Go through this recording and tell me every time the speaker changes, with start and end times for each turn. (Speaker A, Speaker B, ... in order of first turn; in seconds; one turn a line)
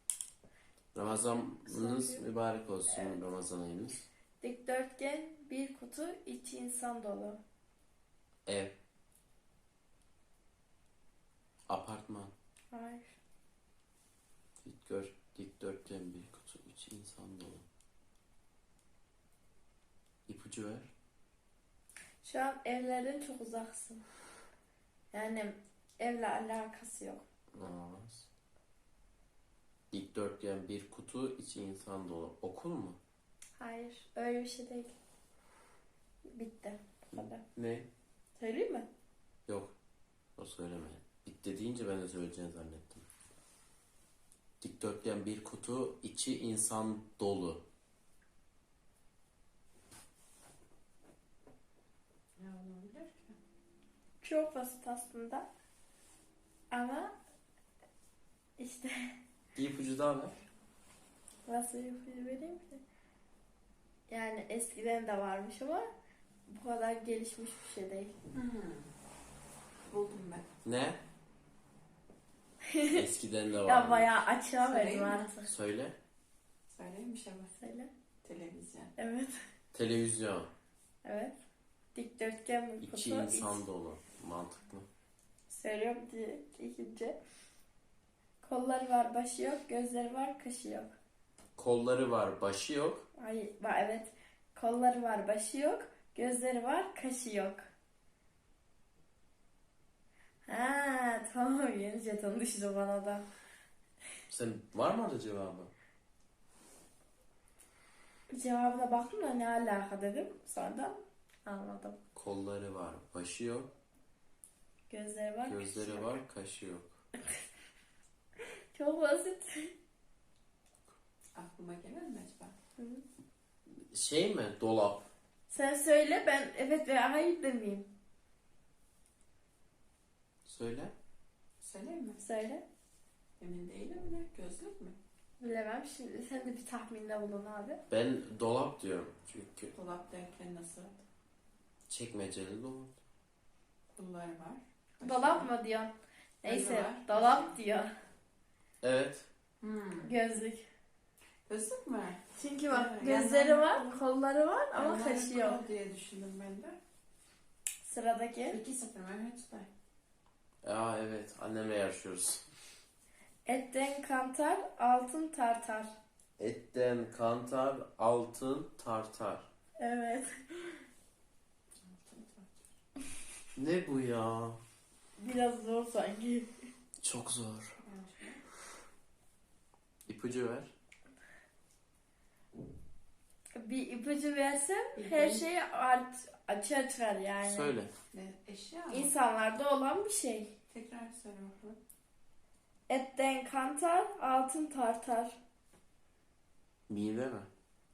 Speaker A: 0.9-4.1
Speaker B: 1.6-2.2
Speaker B: 2.9-3.1
Speaker B: 4.4-7.4
Speaker A: 8.4-8.8
Speaker A: 11.7-12.3
Speaker B: 12.7-13.1
Speaker A: 14.6-17.6
Speaker A: 20.3-20.9
Speaker B: 22.2-24.0
Speaker B: 25.1-27.2
Speaker A: 27.5-28.3
Speaker A: 29.9-33.0
Speaker B: 33.6-34.9
Speaker B: 36.3-37.4
Speaker A: 37.1-37.9
Speaker B: 38.4-38.9
Speaker A: 39.5-39.7
Speaker A: 40.4-43.0
Speaker A: 44.6-47.6
Speaker C: 52.4-53.4
Speaker B: 54.2-55.5
Speaker B: 56.7-57.1
Speaker B: 58.6-59.1
Speaker A: 59.5-60.4
Speaker B: 61.5-62.8
Speaker B: 64.1-65.9
Speaker B: 66.5-68.1
Speaker C: 68.3-68.9
Speaker C: 69.8-70.5
Speaker A: 70.6-71.0
Speaker B: 72.7-73.0
Speaker A: 72.9-74.1
Speaker B: 73.6-75.5
Speaker C: 74.6-75.3
Speaker A: 75.4-76.0
Speaker C: 76.7-77.5
Speaker B: 77.5-77.9
Speaker C: 78.2-78.9
Speaker B: 79.0-79.3
Speaker A: 79.7-80.5
Speaker B: 81.0-81.3
Speaker B: 81.9-83.6
Speaker A: 82.8-84.9
Speaker B: 85.5-87.2
Speaker B: 88.4-90.9
Speaker A: 91.5-93.0
Speaker B: 93.2-97.6
Speaker B: 100.5-103.2
Speaker A: 104.3-105.7
Speaker B: 108.3-112.0
Speaker A: 112.1-113.7
Speaker B: 114.9-116.1
Speaker A: 115.4-116.9
Speaker B: 118.7-119.7
Speaker C: 121.3-122.5
Speaker B: 122.8-123.0
Speaker A: 123.9-125.1
Speaker B: 125.5-127.9
Speaker A: 130.4-130.9
Speaker C: 131.6-132.2
Speaker B: 132.2-132.6
Speaker C: 133.4-135.0
Speaker B: 135.4-137.8
Speaker A: 137.9-139.7
Speaker C: 139.7-141.0
Speaker A: 141.9-142.9
Speaker C: 143.9-145.5
Speaker B: 145.0-147.9
Speaker C: 146.4-147.6
Speaker A: 148.8-149.3
Speaker C: 149.6-150.1
Speaker B: 150.0-150.7
Speaker C: 151.5-154.0
Speaker B: 152.3-155.6
Speaker C: 154.7-156.8
Speaker B: 157.8-158.6
Speaker C: 158.5-159.7
Speaker A: 160.6-162.4
Speaker B: 163.4-165.9
Speaker A: 166.4-169.5
Speaker B: 169.8-170.8
Speaker C: 171.8-172.6
Speaker A: 173.6-174.6
Speaker B: 175.2-176.5
Speaker A: 177.0-177.8
Speaker C: 177.8-178.4
Speaker A: 180.1-180.7
Speaker B: 183.5-187.7
Speaker C: 184.9-185.4
Speaker A: 187.4-187.9
Speaker C: 188.1-189.1
Speaker B: 188.9-190.5
Speaker C: 190.7-191.8
Speaker B: 192.9-195.3
Speaker A: 196.9-197.5